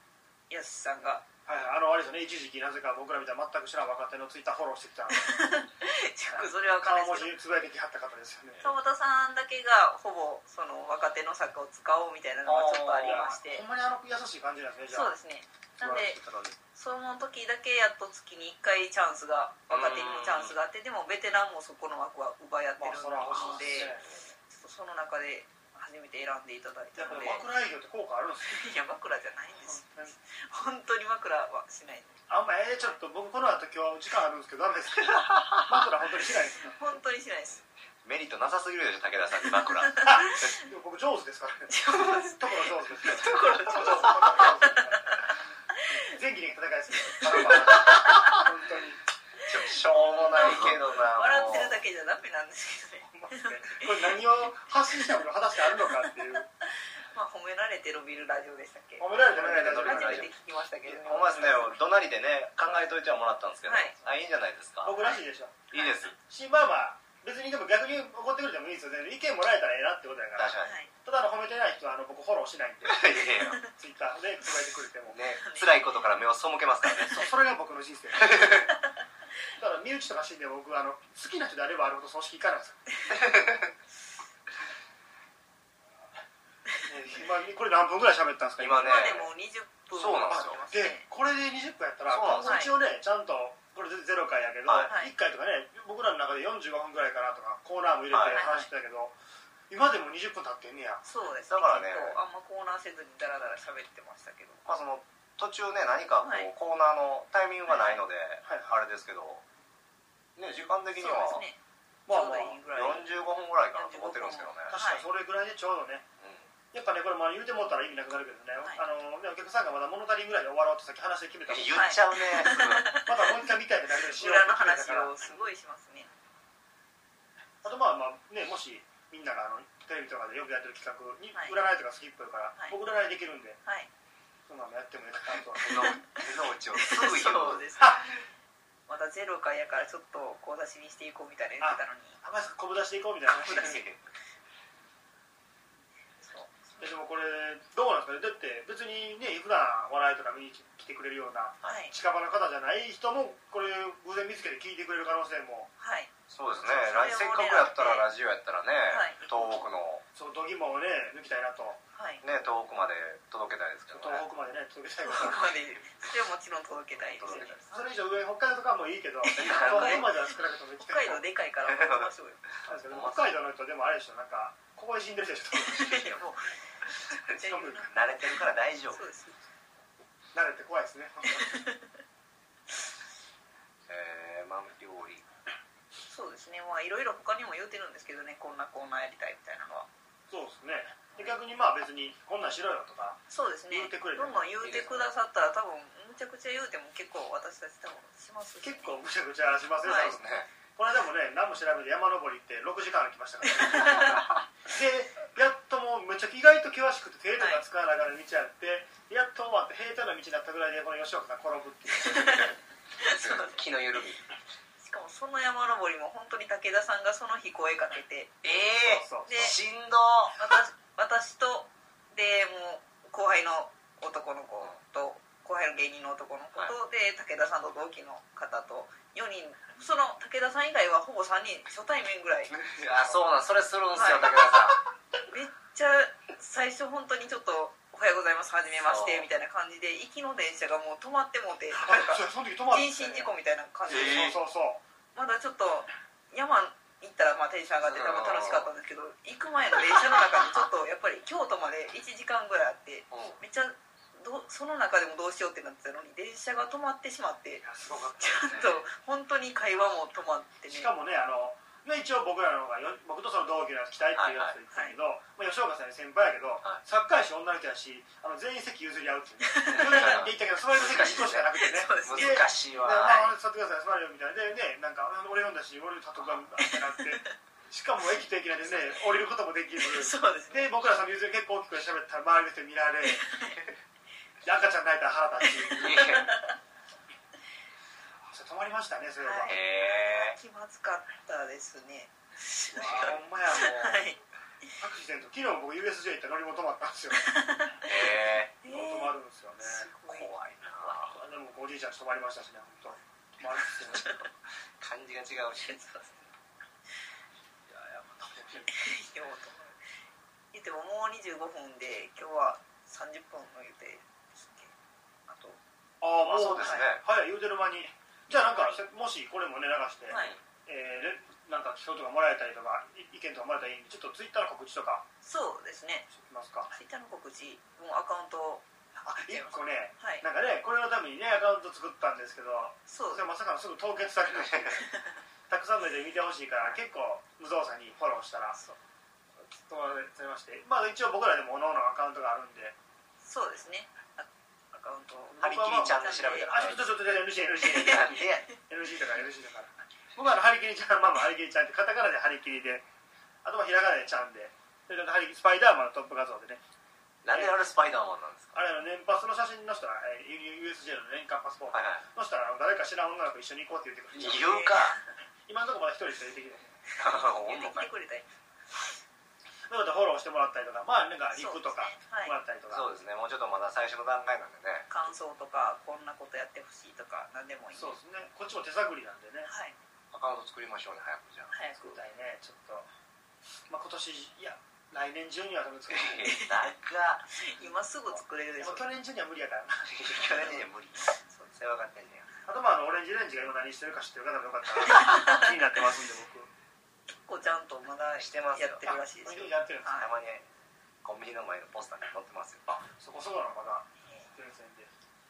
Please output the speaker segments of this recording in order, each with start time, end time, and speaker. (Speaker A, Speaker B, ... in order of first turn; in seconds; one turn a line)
Speaker A: 0.5-1.2
Speaker B: 1.5-5.4
Speaker A: 5.1-7.3
Speaker B: 6.3-8.7
Speaker A: 8.6-13.6
Speaker C: 12.4-13.3
Speaker B: 13.0-15.1
Speaker A: 14.9-16.2
Speaker B: 15.8-16.6
Speaker A: 16.7-23.9
Speaker C: 19.7-20.6
Speaker B: 22.8-24.0
Speaker C: 23.3-24.3
Speaker A: 24.5-27.4
Speaker B: 27.0-28.7
Speaker A: 28.5-32.2
Speaker B: 29.6-30.1
Speaker B: 32.3-36.8
Speaker C: 35.1-35.6
Speaker A: 36.7-37.6
Speaker C: 38.0-40.1
Speaker A: 39.7-40.5
Speaker B: 40.0-45.3
Speaker A: 41.7-45.1
Speaker B: 45.9-49.0
Speaker A: 47.2-48.4
Speaker C: 47.4-48.4
Speaker C: 49.5-51.8
Speaker A: 49.5-54.2
Speaker B: 53.1-56.5
Speaker A: 55.7-59.1
Speaker B: 59.0-60.3
Speaker C: 59.3-65.0
Speaker A: 59.6-61.8
Speaker A: 63.7-64.0
Speaker B: 64.8-65.7
Speaker C: 65.7-66.2
Speaker B: 66.2-73.2
Speaker C: 70.4-70.8
Speaker A: 70.6-70.9
Speaker C: 72.8-73.6
Speaker B: 73.7-75.2
Speaker C: 75.1-77.3
Speaker A: 75.4-75.9
Speaker B: 77.1-78.5
Speaker C: 78.2-78.7
Speaker B: 79.6-82.8
Speaker C: 83.1-83.7
Speaker B: 86.8-89.3
Speaker C: 88.6-89.3
Speaker A: 88.8-91.1
Speaker C: 89.9-90.6
Speaker B: 90.3-99.1
Speaker C: 92.1-92.6
Speaker A: 92.4-92.8
Speaker C: 94.7-94.9
Speaker A: 94.9-95.1
Speaker C: 98.1-98.4
Speaker A: 98.3-98.7
Speaker B: 99.7-101.0
Speaker A: 101.0-104.6
Speaker C: 101.5-102.2
Speaker C: 104.7-109.4
Speaker A: 106.2-106.5
Speaker A: 107.7-108.0
Speaker B: 108.5-108.8
Speaker C: 110.4-111.5
Speaker A: 111.0-113.1
Speaker B: 112.1-112.6
Speaker C: 112.7-114.8
Speaker A: 113.7-115.1
Speaker B: 114.7-116.1
Speaker C: 116.2-116.5
Speaker B: 116.7-121.9
Speaker C: 121.5-123.0
Speaker A: 121.8-126.1
Speaker B: 123.0-125.4
Speaker B: 127.6-133.6
Speaker B: 134.5-136.0
Speaker C: 135.6-137.7
Speaker A: 135.7-136.2
Speaker A: 136.8-138.0
Speaker B: 137.8-138.1
Speaker A: 138.9-142.2
Speaker B: 141.6-143.8
Speaker C: 143.3-144.0
Speaker A: 146.2-146.8
Speaker B: 146.8-155.7
Speaker A: 151.7-151.9
Speaker A: 155.8-158.1
Speaker C: 156.3-160.0
Speaker A: 158.9-159.7
Speaker B: 160.2-161.8
Speaker A: 161.9-162.2
Speaker C: 162.2-164.2
Speaker B: 163.9-165.5
Speaker A: 165.0-167.9
Speaker C: 166.9-167.6
Speaker B: 167.3-171.2
Speaker A: 169.2-170.2
Speaker C: 169.4-170.1
Speaker A: 170.8-172.4
Speaker C: 171.7-172.1
Speaker B: 172.7-176.1
Speaker C: 172.9-173.3
Speaker A: 175.6-176.4
Speaker C: 175.8-176.3
Speaker A: 177.1-178.4
Speaker C: 177.3-179.0
Speaker B: 177.4-177.9
Speaker A: 178.9-179.4
Speaker B: 180.3-181.7
Speaker A: 181.4-181.8
Speaker C: 183.9-185.3
Speaker A: 186.1-189.9
Speaker B: 190.3-195.0
Speaker A: 193.3-199.0
Speaker B: 198.6-212.5
Speaker A: 199.8-200.1
Speaker C: 199.9-200.5
Speaker A: 203.6-204.2
Speaker A: 212.0-213.6
Speaker C: 213.0-214.2
Speaker A: 214.8-218.3
Speaker C: 218.4-220.5
Speaker B: 218.8-219.6
Speaker A: 219.3-219.6
Speaker A: 220.4-232.8
Speaker C: 232.5-234.8
Speaker A: 233.9-234.5
Speaker A: 235.3-244.3
Speaker C: 238.8-239.3
Speaker B: 241.7-243.3
Speaker C: 243.9-244.4
Speaker B: 243.9-244.8
Speaker A: 245.2-257.6
Speaker C: 247.8-248.7
Speaker C: 253.1-253.4
Speaker B: 257.6-258.7
Speaker A: 258.2-260.9
Speaker C: 258.5-258.8
Speaker B: 260.7-283.3
Speaker C: 264.1-264.6
Speaker A: 264.7-265.0
Speaker A: 269.4-270.3
Speaker C: 269.7-271.5
Speaker A: 271.6-273.4
Speaker C: 272.0-273.2
Speaker A: 276.6-277.3
Speaker A: 278.7-279.1
Speaker A: 279.8-280.7
Speaker A: 283.1-283.6
Speaker B: 284.4-286.0
Speaker A: 285.4-286.6
Speaker C: 285.7-286.4
Speaker B: 288.3-289.6
Speaker A: 289.2-294.2
Speaker C: 289.5-290.4
Speaker B: 292.7-294.1
Speaker C: 292.8-293.2
Speaker B: 294.8-297.4
Speaker A: 297.2-300.3
Speaker C: 297.9-298.5
Speaker B: 298.6-299.9
Speaker C: 300.1-301.1
Speaker B: 300.8-304.2
Speaker C: 304.8-305.8
Speaker A: 305.6-306.3
Speaker C: 307.7-308.7
Speaker A: 308.7-309.8
Speaker A: 310.5-314.7
Speaker A: 315.3-315.6
Speaker B: 316.0-325.1
Speaker C: 316.2-317.0
Speaker A: 318.3-318.8
Speaker A: 320.1-320.4
Speaker C: 320.1-320.4
Speaker A: 325.2-326.1
Speaker B: 326.1-326.8
Speaker A: 326.7-328.6
Speaker B: 329.0-334.9
Speaker A: 329.3-330.2
Speaker A: 332.9-333.2
Speaker A: 334.8-335.1
Speaker B: 335.5-338.6
Speaker B: 339.6-342.8
Speaker A: 343.2-346.8
Speaker B: 345.3-352.9
Speaker C: 345.4-346.9
Speaker C: 347.6-348.5
Speaker B: 353.4-356.6
Speaker C: 357.2-358.6
Speaker B: 357.3-357.6
Speaker B: 358.6-364.8
Speaker C: 361.7-362.0
Speaker C: 364.1-365.0
Speaker A: 364.4-365.0
Speaker B: 365.5-366.8
Speaker C: 367.0-367.9
Speaker A: 367.0-368.3
Speaker B: 369.7-372.9
Speaker A: 371.4-372.4
Speaker C: 372.7-374.9
Speaker A: 374.9-378.0
Speaker B: 377.7-379.5
Speaker A: 379.5-379.8
Speaker C: 380.1-381.5
Speaker A: 381.5-382.0
Speaker B: 381.8-382.9
Speaker B: 383.7-386.3
Speaker C: 385.9-387.3
Speaker A: 386.2-386.7
Speaker A: 387.3-388.9
Speaker B: 388.6-390.6
Speaker C: 389.9-392.3
Speaker A: 391.2-391.5
Speaker B: 392.5-396.5
Speaker A: 395.0-395.4
Speaker A: 397.1-400.1
Speaker C: 398.2-399.0
Speaker B: 399.2-400.0
Speaker C: 399.9-400.5
Speaker C: 401.0-402.6
Speaker B: 402.7-404.9